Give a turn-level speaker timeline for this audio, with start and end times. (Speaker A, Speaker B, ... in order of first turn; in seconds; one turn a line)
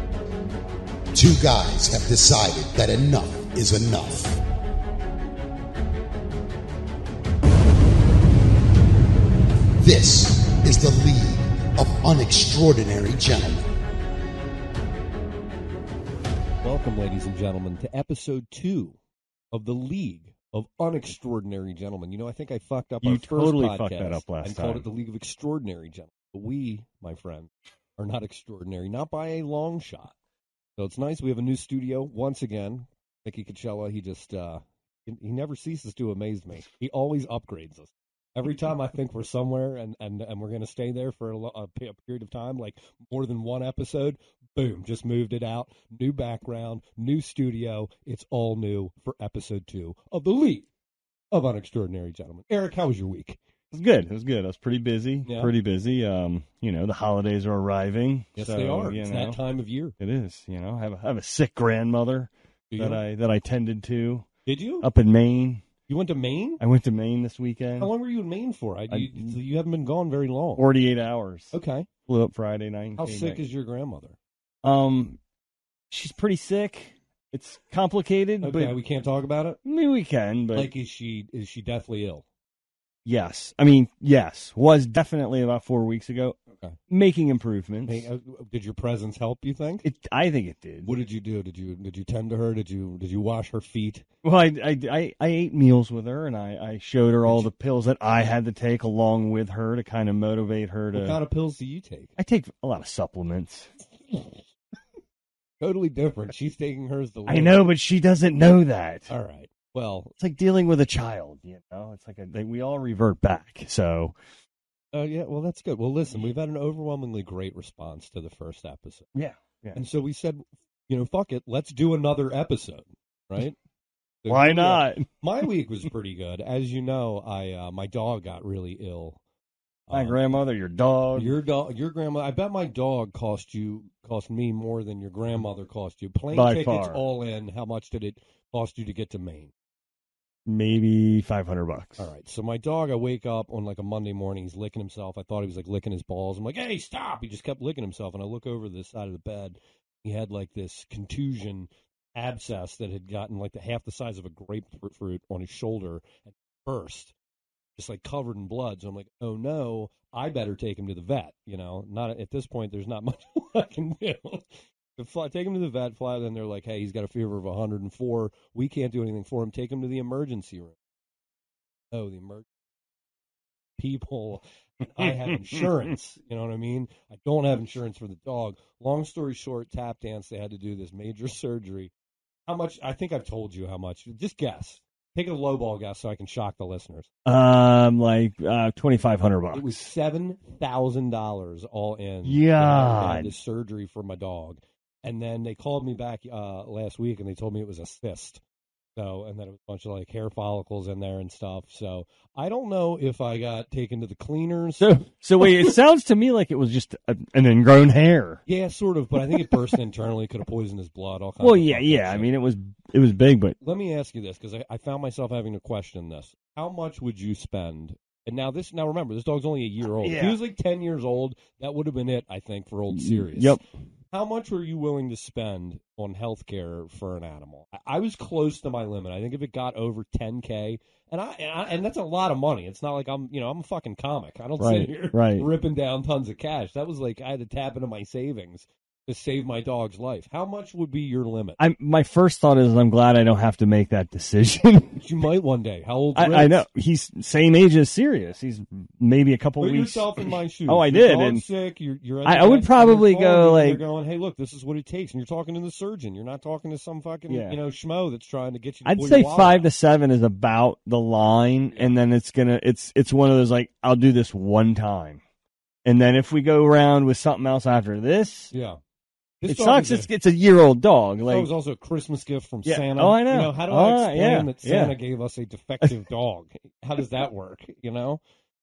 Speaker A: 1.1-4.4
Speaker A: 9.8-13.7
Speaker B: 16.6-19.0
Speaker B: 19.5-30.1
Speaker C: 23.0-24.9
Speaker B: 30.8-50.7
Speaker B: 51.3-53.4
Speaker C: 53.7-59.4
Speaker B: 55.2-55.5
Speaker B: 58.4-60.0
Speaker C: 60.0-64.3
Speaker B: 62.7-63.0
Speaker B: 64.5-64.9
Speaker C: 64.8-65.7
Speaker B: 65.9-66.6
Speaker C: 66.6-67.9
Speaker B: 67.8-70.6
Speaker C: 68.9-69.3
Speaker C: 70.6-71.5
Speaker B: 71.5-71.9
Speaker C: 72.1-73.4
Speaker B: 73.0-74.2
Speaker C: 74.6-75.2
Speaker C: 75.9-78.8
Speaker B: 78.4-79.6
Speaker C: 79.6-80.7
Speaker B: 80.5-82.2
Speaker C: 83.0-88.1
Speaker B: 87.9-89.8
Speaker C: 89.8-90.9
Speaker B: 90.8-94.0
Speaker C: 94.2-101.2
Speaker B: 97.2-97.5
Speaker B: 100.9-102.1
Speaker C: 102.2-103.7
Speaker B: 105.6-107.6
Speaker C: 107.3-109.1
Speaker B: 109.1-110.1
Speaker C: 110.2-114.1
Speaker B: 114.9-119.1
Speaker C: 119.1-119.8
Speaker B: 119.8-123.6
Speaker B: 124.2-129.2
Speaker C: 124.3-125.1
Speaker B: 129.9-130.2
Speaker C: 129.9-131.3
Speaker B: 131.2-139.5
Speaker C: 136.3-137.0
Speaker C: 140.5-142.1
Speaker B: 142.0-157.1
Speaker B: 157.8-170.8
Speaker B: 171.9-172.5
Speaker B: 173.8-181.9
Speaker C: 175.0-175.7
Speaker B: 182.5-187.1
Speaker C: 187.2-189.7
Speaker B: 189.5-198.4
Speaker C: 192.2-193.3
Speaker B: 199.0-205.8
Speaker C: 204.8-208.4
Speaker B: 208.5-212.3
Speaker C: 211.4-213.6
Speaker B: 213.6-223.6
Speaker C: 220.0-220.4
Speaker C: 222.9-223.6
Speaker B: 224.1-241.6
Speaker C: 234.6-235.5
Speaker C: 241.6-245.1
Speaker B: 245.0-246.6
Speaker C: 246.2-251.4
Speaker B: 249.6-259.7
Speaker C: 252.2-253.8
Speaker C: 257.3-257.6
Speaker C: 258.9-265.2
Speaker B: 261.7-261.9
Speaker C: 265.9-268.5
Speaker B: 268.5-268.8
Speaker B: 269.4-270.1
Speaker C: 269.4-271.5
Speaker B: 271.3-278.2
Speaker C: 272.6-275.0